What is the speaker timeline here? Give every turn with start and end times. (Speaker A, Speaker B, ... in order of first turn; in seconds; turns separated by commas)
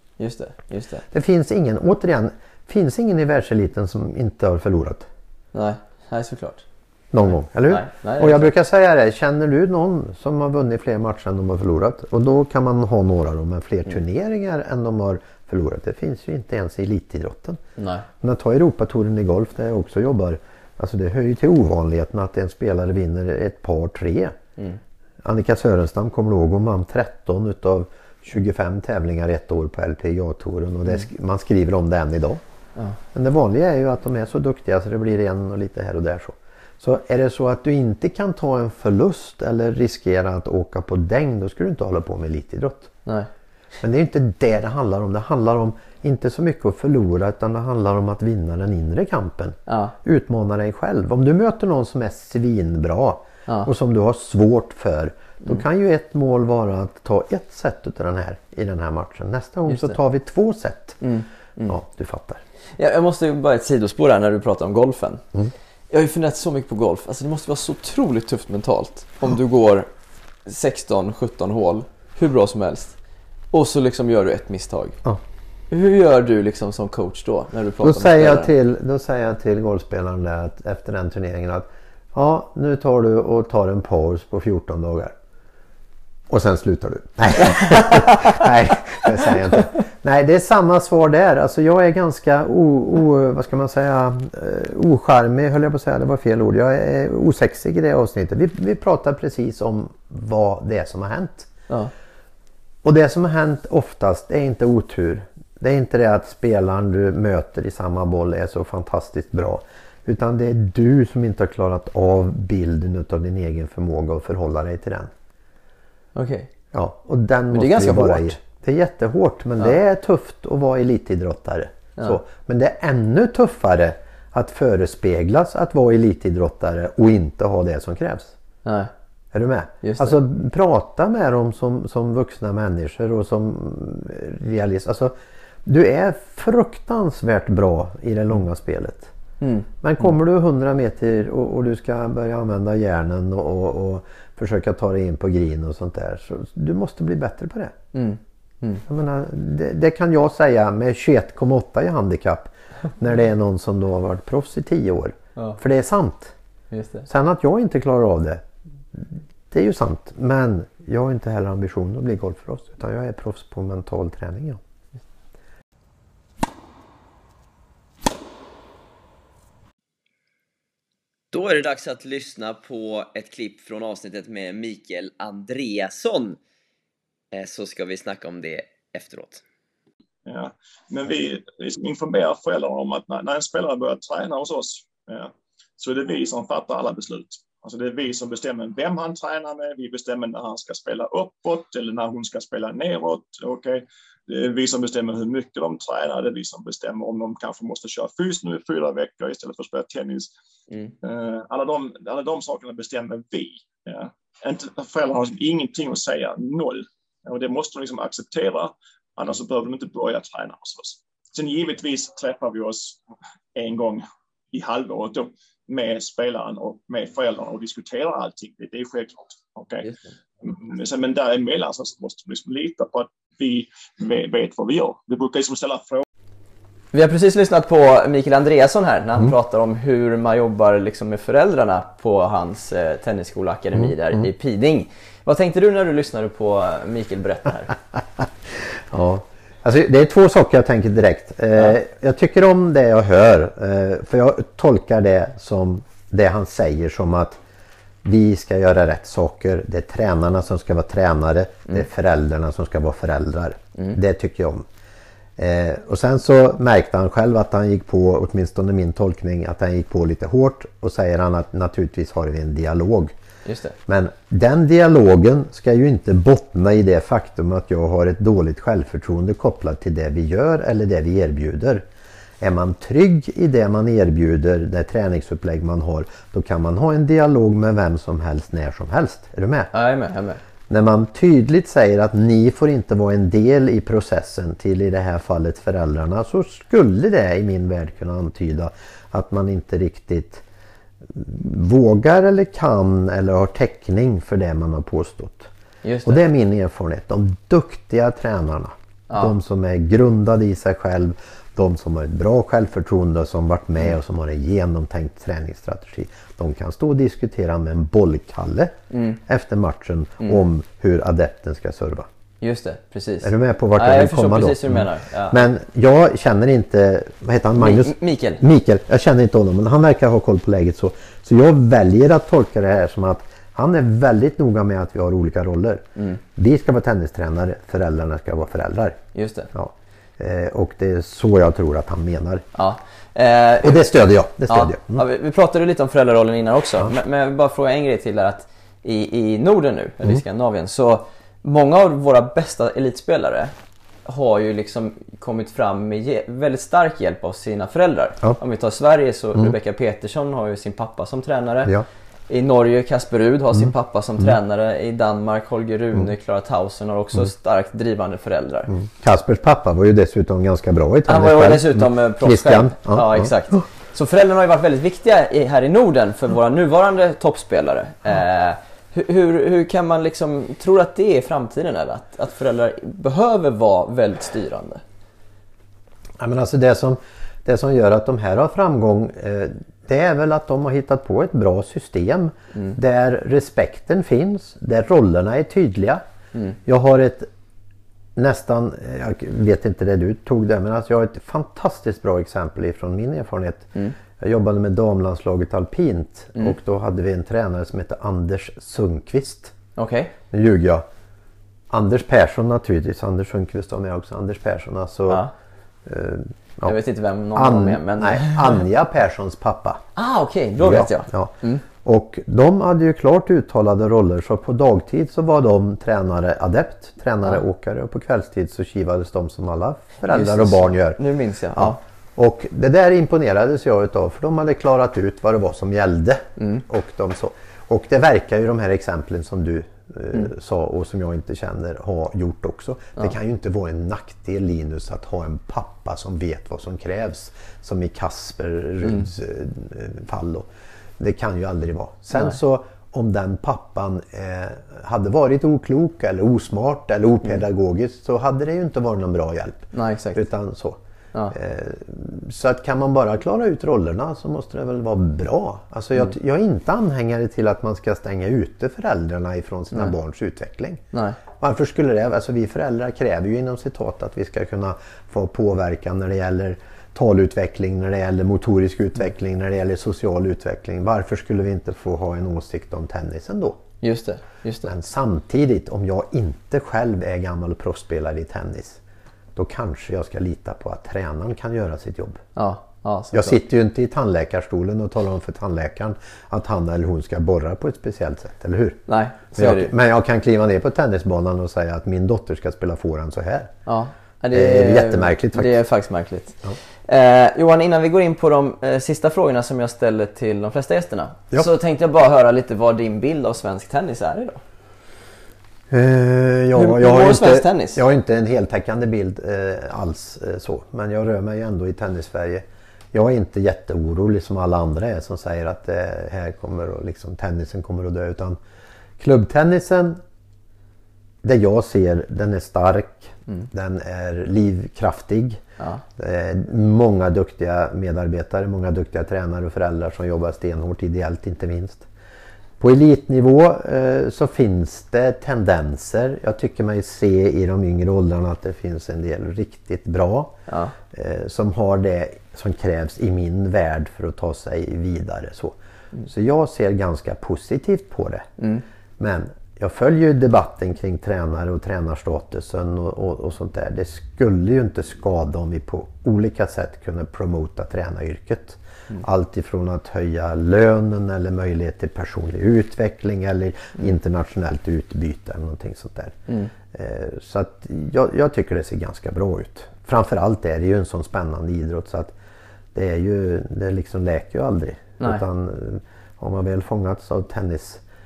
Speaker A: 0.2-1.0, Speaker B: 1.1-5.1, Speaker A: 5.5-6.7, Speaker B: 7.1-17.6, Speaker A: 7.7-8.5, Speaker A: 17.8-18.1, Speaker B: 18.2-24.4, Speaker B: 25.2-32.4, Speaker B: 33.1-43.0, Speaker B: 43.8-61.0, Speaker A: 49.7-50.0, Speaker A: 59.7-60.0, Speaker A: 61.0-61.7, Speaker B: 61.6-62.4, Speaker A: 62.8-65.2, Speaker A: 65.9-69.9, Speaker A: 70.5-73.0, Speaker A: 73.5-75.0, Speaker A: 75.7-78.5, Speaker B: 77.8-85.2, Speaker B: 86.3-101.5, Speaker B: 102.8-115.1, Speaker A: 116.2-116.5, Speaker B: 116.7-128.3, Speaker A: 117.5-118.4, Speaker A: 128.6-128.9, Speaker B: 129.3-135.2, Speaker A: 129.8-130.2, Speaker B: 135.7-139.1, Speaker A: 139.4-139.7, Speaker B: 139.8-147.8, Speaker A: 147.9-148.8, Speaker B: 148.9-156.3, Speaker A: 156.7-157.1, Speaker B: 157.1-164.6, Speaker C: 171.3-176.4, Speaker C: 177.3-179.4, Speaker D: 180.3-200.3, Speaker D: 201.0-213.0, Speaker D: 213.6-226.1, Speaker A: 226.9-237.8, Speaker B: 233.8-234.2, Speaker B: 238.9-247.4, Speaker B: 248.0-254.7, Speaker B: 255.4-263.1, Speaker A: 263.4-263.8, Speaker B: 263.9-271.9, Speaker B: 272.4-279.7, Speaker A: 279.7-280.4, Speaker B: 280.7-290.4, Speaker B: 291.1-295.5, Speaker A: 295.8-296.2, Speaker B: 296.1-312.1, Speaker A: 308.9-309.2, Speaker A: 312.4-315.4, Speaker B: 313.2-325.8, Speaker A: 317.6-318.4, Speaker B: 326.4-329.0, Speaker A: 329.1-329.5, Speaker B: 329.5-332.4, Speaker A: 332.6-333.9, Speaker B: 333.6-335.0, Speaker A: 334.5-343.5, Speaker A: 344.1-351.7, Speaker A: 352.3-358.8, Speaker B: 358.7-363.6, Speaker A: 361.1-374.8, Speaker B: 376.2-386.0, Speaker B: 386.6-387.3, Speaker B: 388.2-399.5, Speaker A: 399.8-400.1, Speaker B: 400.3-400.9, Speaker B: 401.7-405.2, Speaker B: 405.9-406.8, Speaker A: 406.6-408.6, Speaker B: 407.4-409.8, Speaker A: 410.0-411.6, Speaker B: 410.6-421.0, Speaker A: 420.1-421.8, Speaker B: 421.6-440.5, Speaker A: 426.4-426.6, Speaker B: 441.0-450.8, Speaker A: 449.7-450.2, Speaker B: 451.3-460.8, Speaker A: 460.9-461.2, Speaker B: 461.4-473.6, Speaker A: 473.8-474.7, Speaker B: 474.6-478.8, Speaker B: 479.4-482.2, Speaker A: 482.4-483.4, Speaker B: 483.1-488.8, Speaker A: 488.9-489.7, Speaker B: 489.4-493.5, Speaker A: 493.7-504.4, Speaker B: 494.3-495.5, Speaker B: 505.7-518.4, Speaker A: 506.6-507.8, Speaker B: 519.0-520.0, Speaker B: 521.2-525.4, Speaker B: 526.0-531.9, Speaker B: 532.6-540.4, Speaker A: 540.5-540.8, Speaker B: 540.9-548.3, Speaker A: 548.4-548.6, Speaker B: 549.0-566.2, Speaker B: 566.7-572.1, Speaker B: 572.7-577.8